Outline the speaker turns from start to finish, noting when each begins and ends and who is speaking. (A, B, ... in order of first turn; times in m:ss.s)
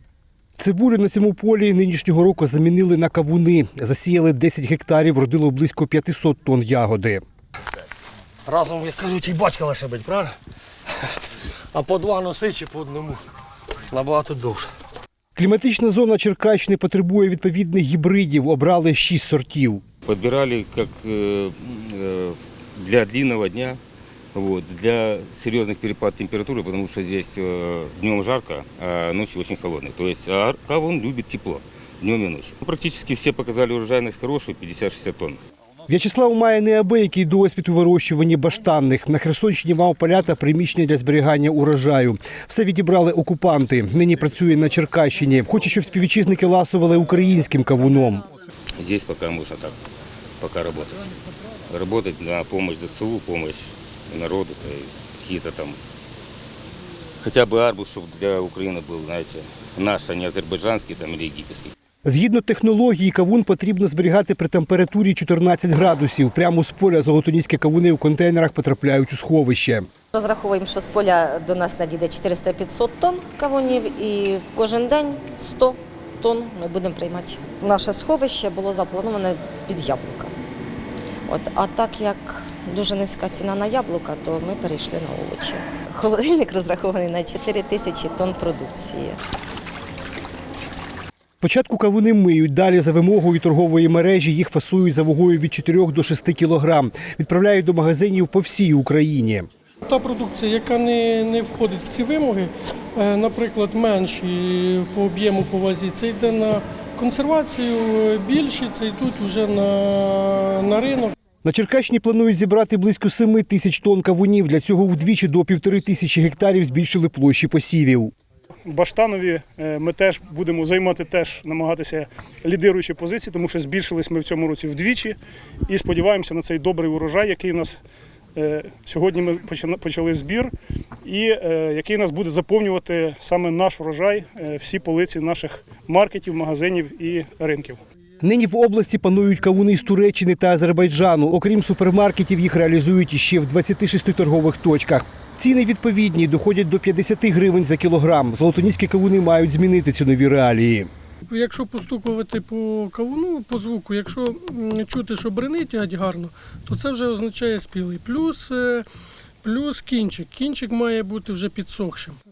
0:00.6-0:07.2 A
0:08.4-0:10.3 B
0:11.7-0:13.2 B
0:13.9-0:14.7 B
0:15.4-0:19.8 A
0:20.0-0:23.8 C
0:24.3-0:35.4 C
0:35.9-0:48.2 A
0:48.8-0:49.8 C
0:50.4-0:51.1 C
0:51.7-0:55.8 C
0:57.2-1:01.7 C
1:02.0-1:09.9 A
1:10.1-1:20.3 D
1:21.3-1:29.2 D
1:31.4-1:39.5 A
1:39.8-1:51.1 E
1:51.4-1:58.1 A
1:58.7-2:07.8 F
2:08.3-2:10.5 F
2:11.0-2:17.8 F
2:18.2-2:30.9 A
2:31.3-2:38.8 E
2:39.4-2:42.2 E